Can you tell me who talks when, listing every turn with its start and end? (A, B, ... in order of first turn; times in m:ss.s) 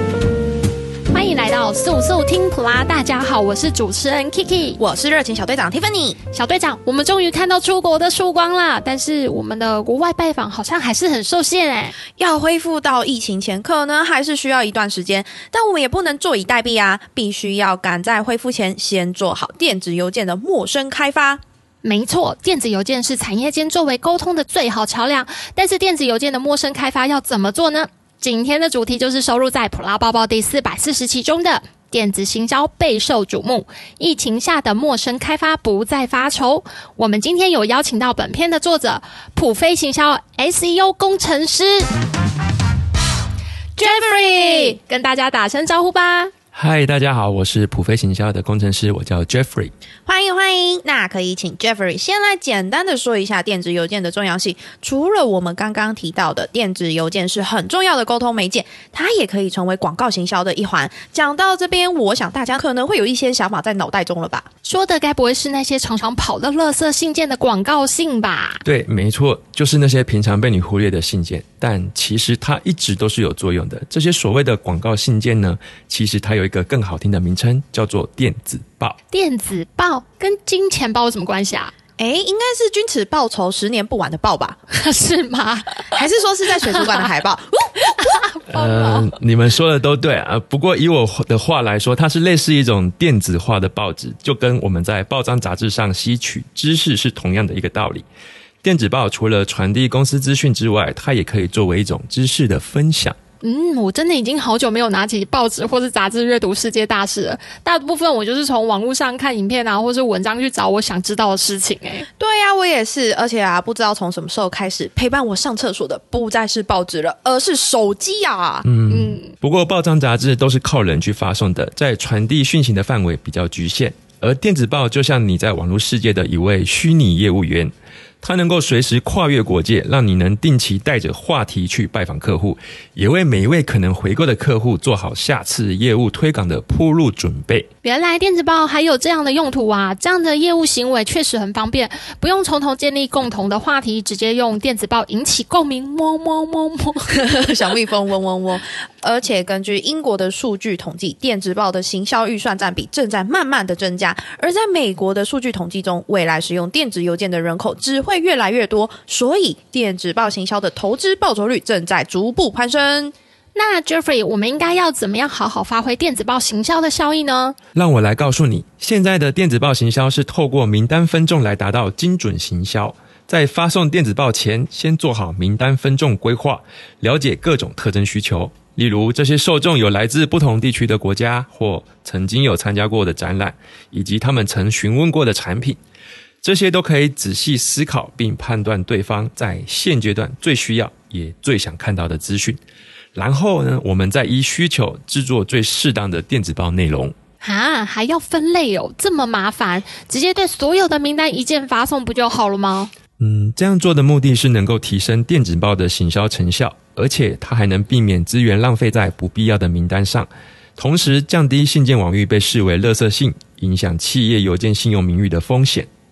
0:01.1-0:04.8 A
0:04.8-0:06.2 B
0:06.3-0:12.0 A
0:12.2-0:21.4 B
0:21.8-0:41.9 A
0:43.8-0:46.3 A
0:43.8-0:44.8 B
0:46.5-0:49.7 C
0:50.1-1:04.5 B
1:04.6-1:08.6 A
1:08.6-1:19.0 C
1:19.1-1:21.7 A
1:22.0-1:24.6 B
1:24.7-1:26.0 A
1:25.9-1:28.0 B
1:27.9-1:29.1 A
1:28.5-1:38.1 C
1:38.6-1:43.2 C
1:43.4-1:52.1 A
1:52.2-1:58.7 B
1:58.6-2:17.7 C
1:58.9-1:59.3 A
2:17.8-2:27.2 A
2:27.1-2:43.1 B
2:43.6-2:47.6 A
2:47.8-3:05.8 C
3:06.4-3:12.6 C
3:13.2-3:17.2 C
3:17.4-3:22.9 A
3:23.2-3:35.9 C